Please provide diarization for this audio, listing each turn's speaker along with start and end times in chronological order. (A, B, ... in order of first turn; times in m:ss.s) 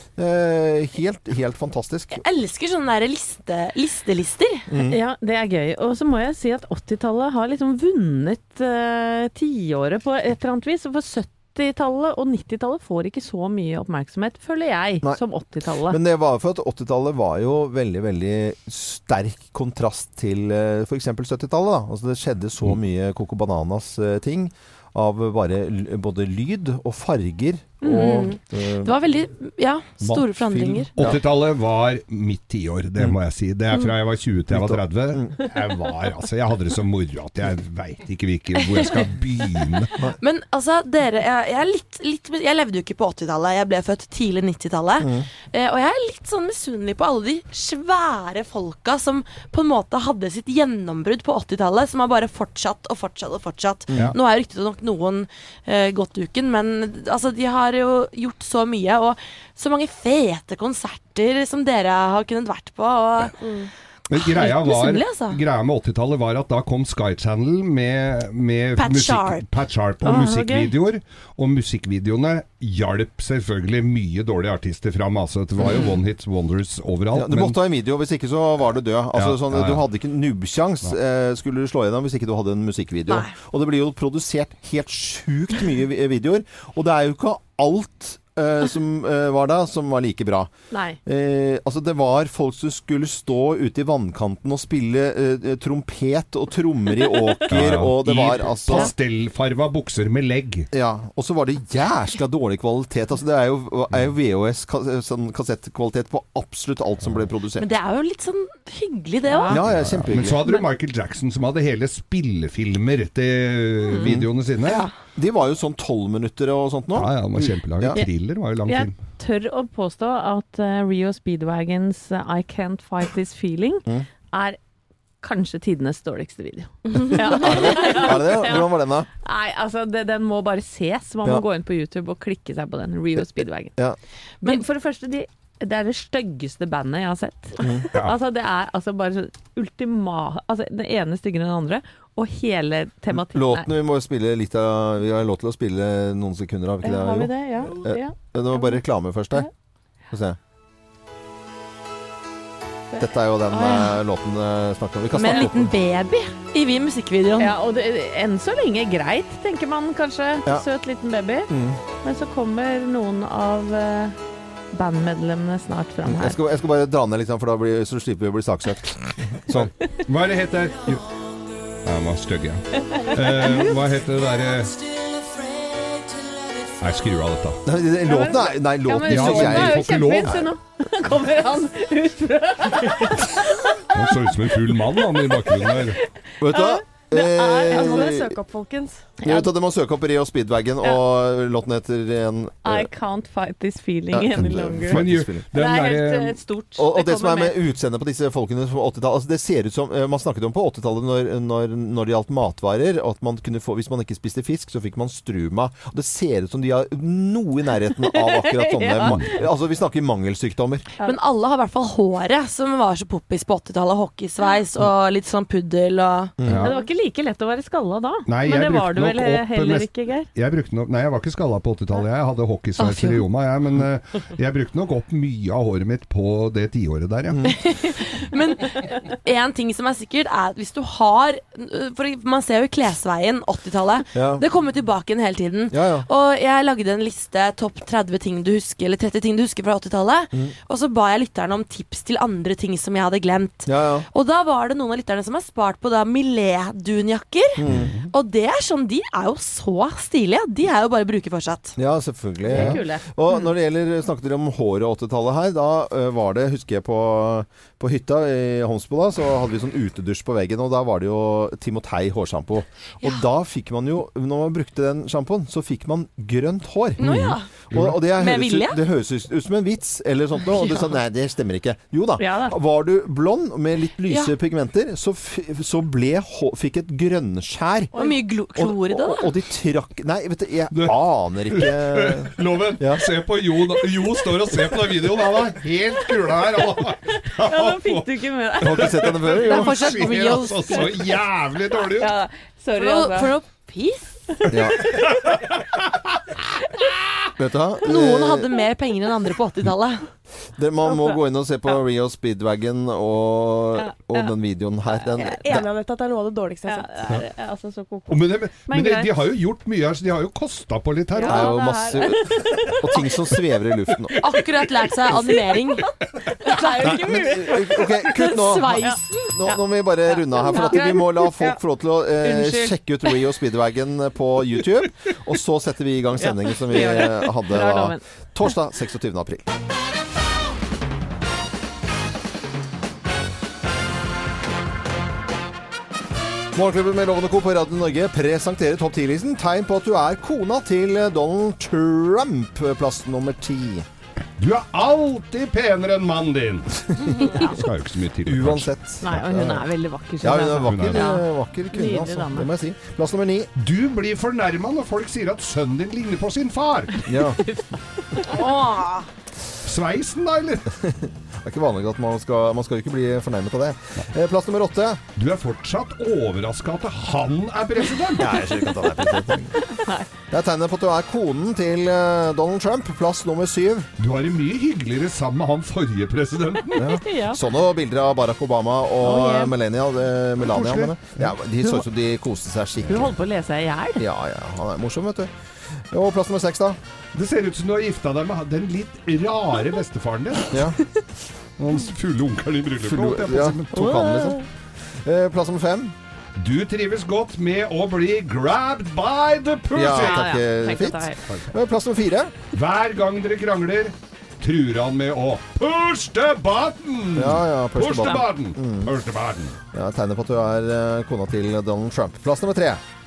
0:00.2-0:02.2 A
0:02.2-0:04.7 B
0:04.7-0:05.0 A
0:04.8-0:16.0 C
0:15.8-0:28.9 A
0:27.8-0:30.9 B
0:30.0-0:40.0 D
0:31.0-0:31.2 A
0:34.5-0:35.4 A
0:40.2-1:03.5 B
0:45.0-0:45.3 A
1:04.1-1:17.6 D
1:04.1-1:05.4 B
1:08.8-1:09.4 B
1:10.0-1:10.7 C
1:15.6-1:15.9 A
1:17.1-1:30.5 A
1:19.1-1:19.8 D
1:23.1-1:23.3 C
1:30.7-1:31.0 C
1:31.0-1:38.9 A
1:37.1-1:37.4 C
1:37.5-1:40.7 D
1:40.7-1:47.7 A
1:47.6-1:49.6 B
1:49.3-1:49.6 C
1:49.5-1:50.4 A
1:49.6-1:54.9 D
1:53.8-1:54.1 C
1:54.0-1:54.3 A
1:54.6-1:54.9 B
1:55.1-1:58.0 A
1:57.0-1:58.9 D
1:58.7-2:04.6 C
2:05.2-2:08.7 C
2:07.2-2:09.1 A
2:09.2-2:13.7 C
2:14.4-2:23.7 C
2:17.6-2:17.9 A
2:23.1-2:29.5 A
2:26.8-2:28.7 C
2:30.1-2:30.4 A
2:33.0-2:35.7 A
2:33.5-2:33.9 B
2:35.1-2:37.5 B
2:37.4-2:41.5 C
2:41.5-2:41.8 A
2:42.0-2:44.2 C
2:44.7-2:46.4 C
2:46.0-2:49.7 A
2:49.5-2:51.0 D
2:51.8-2:54.7 D
2:52.8-2:53.6 C
2:56.8-2:57.6 D
2:57.6-3:00.5 A
2:58.0-3:04.0 C
2:59.0-3:00.5 D
3:03.9-3:06.0 D
3:05.3-3:08.1 C
3:06.4-3:08.4 A
3:07.6-3:09.1 E
3:09.2-3:09.5 C
3:09.2-3:12.9 A
3:12.6-3:17.6 C
3:14.1-3:15.4 A
3:14.9-3:16.4 D
3:16.8-3:30.9 A
3:28.1-3:29.4 C
3:29.0-3:29.3 D
3:31.0-3:36.4 B
3:36.4-3:36.6 A
3:36.4-3:36.7 D
3:36.5-3:40.3 C
3:38.3-3:47.4 D
3:42.8-3:43.2 A
3:47.3-3:47.6 A
3:47.6-4:11.8 B
3:54.1-3:54.4 A
3:55.7-3:56.0 A
4:03.6-4:04.0 A
4:07.6-4:08.1 A
4:07.7-4:08.0 D
4:11.8-4:27.2 A
4:12.5-4:13.0 C
4:12.5-4:12.8 D
4:27.0-4:27.5 B
4:27.7-4:37.9 A
4:27.7-4:28.0 D
4:28.1-4:28.8 B
4:30.6-4:30.9 C
4:32.2-4:32.6 C
4:37.9-4:39.3 B
4:38.6-4:43.2 A
4:41.5-4:52.1 D
4:47.4-4:49.1 C
4:48.6-4:50.2 A
4:49.4-4:51.1 B
4:52.0-4:53.3 C
4:52.8-4:54.4 B
4:54.5-4:54.9 A
4:54.8-4:56.9 D
4:57.4-4:58.5 A
4:57.8-5:00.1 B
5:00.5-5:05.6 A
5:03.8-5:04.3 C
5:04.9-5:05.5 C
5:05.4-5:06.9 E
5:06.7-5:09.2 C
5:08.1-5:11.6 D
5:11.2-5:13.1 C
5:11.2-5:14.2 A
5:14.2-5:15.8 B
5:15.1-5:21.6 C
5:16.4-5:16.8 B
5:16.8-5:29.5 A
5:18.1-5:19.3 B
5:22.2-5:23.2 C
5:26.2-5:28.0 C
5:36.5-5:43.8 A
5:44.4-5:48.7 D
5:47.2-5:47.6 C
5:48.2-5:49.7 A
5:49.0-5:52.5 C
5:50.2-5:53.5 A
5:50.6-5:51.1 D
5:53.6-5:57.1 D
5:57.0-5:57.4 A
5:57.4-5:58.4 C
5:58.3-5:59.0 B
5:59.6-6:00.7 D
6:00.8-6:05.0 A
6:05.2-6:08.4 D
6:08.2-6:09.6 A
6:09.6-6:10.1 C
6:10.3-6:13.9 A
6:14.0-6:17.0 D
6:16.7-6:23.1 A
6:16.9-6:17.4 C
6:19.0-6:19.5 C
6:20.5-6:21.3 D
6:22.9-6:24.0 C
6:24.0-6:26.8 A
6:27.1-6:30.6 D
6:30.5-6:30.8 A
6:31.6-6:33.7 D
6:32.8-6:36.0 A
6:33.7-6:34.4 C
6:36.4-6:40.3 D
6:39.7-6:42.4 A
6:39.8-6:41.2 C
6:42.5-6:49.6 D
6:47.1-6:48.9 A
6:49.7-6:52.8 A